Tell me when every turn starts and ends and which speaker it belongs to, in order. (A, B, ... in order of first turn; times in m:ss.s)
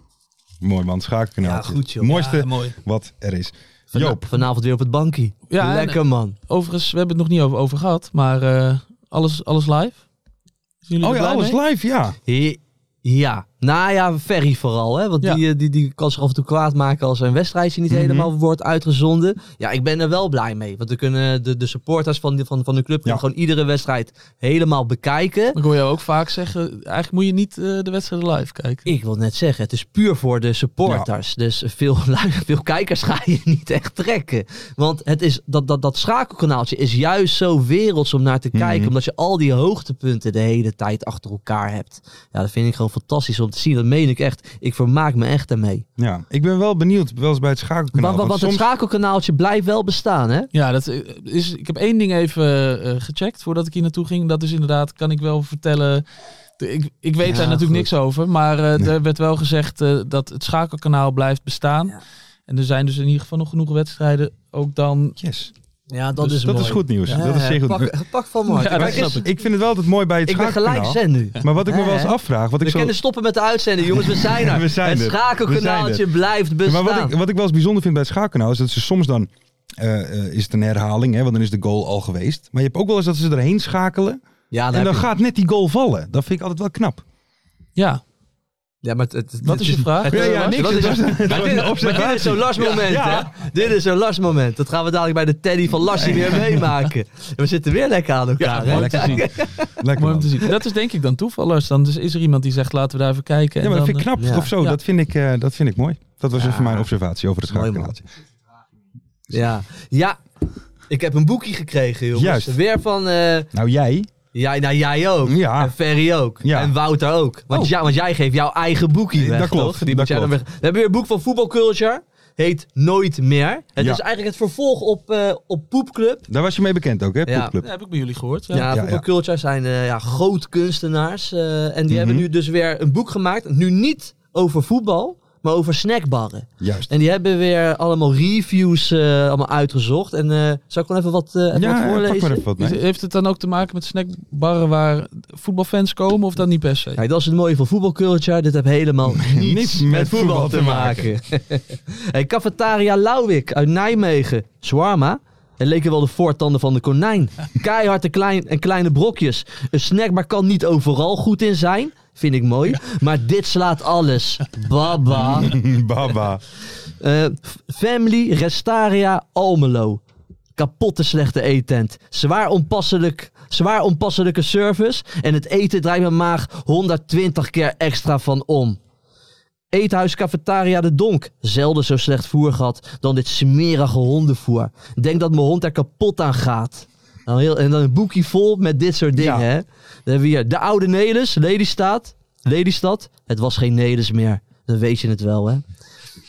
0:00.6-0:04.2 A
0:01.4-0:02.7 B
0:03.9-0:06.3 B
0:05.5-0:10.0 C
0:10.8-0:11.6 C
0:11.0-0:12.2 A
0:12.3-0:25.6 B
0:17.9-0:18.3 A
0:25.5-0:28.8 C
0:28.8-0:45.8 B
0:38.5-0:38.9 A
0:46.0-0:48.7 A
0:47.9-0:50.5 B
0:50.5-0:56.0 C
0:56.6-1:02.0 C
0:57.2-0:57.9 B
1:02.5-1:05.2 C
1:05.2-1:05.5 A
1:05.9-1:09.2 B
1:06.2-1:07.9 A
1:08.5-1:09.2 C
1:08.7-1:12.9 A
1:10.2-1:17.1 B
1:13.9-1:16.1 A
1:16.6-1:27.0 A
1:24.5-1:25.1 B
1:27.8-1:28.0 C
1:28.8-1:39.7 B
1:29.4-1:32.8 C
1:30.1-1:33.3 A
1:36.0-1:36.4 A
1:38.4-1:39.3 C
1:38.6-1:40.4 A
1:39.9-1:44.8 C
1:43.6-1:48.0 A
1:44.2-1:44.5 B
1:46.3-1:46.9 B
1:47.5-1:48.0 B
1:49.3-1:50.2 B
1:50.9-1:53.5 B
1:52.1-1:52.6 A
1:53.5-1:54.1 A
1:54.3-2:06.3 B
1:55.2-1:55.7 A
1:56.4-1:56.7 A
1:59.1-2:00.3 A
2:03.8-2:04.0 A
2:06.3-2:07.6 A
2:07.3-2:07.6 B
2:07.6-2:08.7 C
2:08.5-2:22.4 B
2:08.7-2:09.0 A
2:11.9-2:12.3 A
2:16.6-2:16.9 A
2:21.5-2:22.8 A
2:22.6-2:27.0 C
2:27.0-2:45.5 B
2:29.1-2:31.1 A
2:45.1-2:46.4 A
2:47.0-2:50.0 B
2:50.6-2:58.8 B
2:59.7-3:15.6 B
3:09.1-3:09.5 A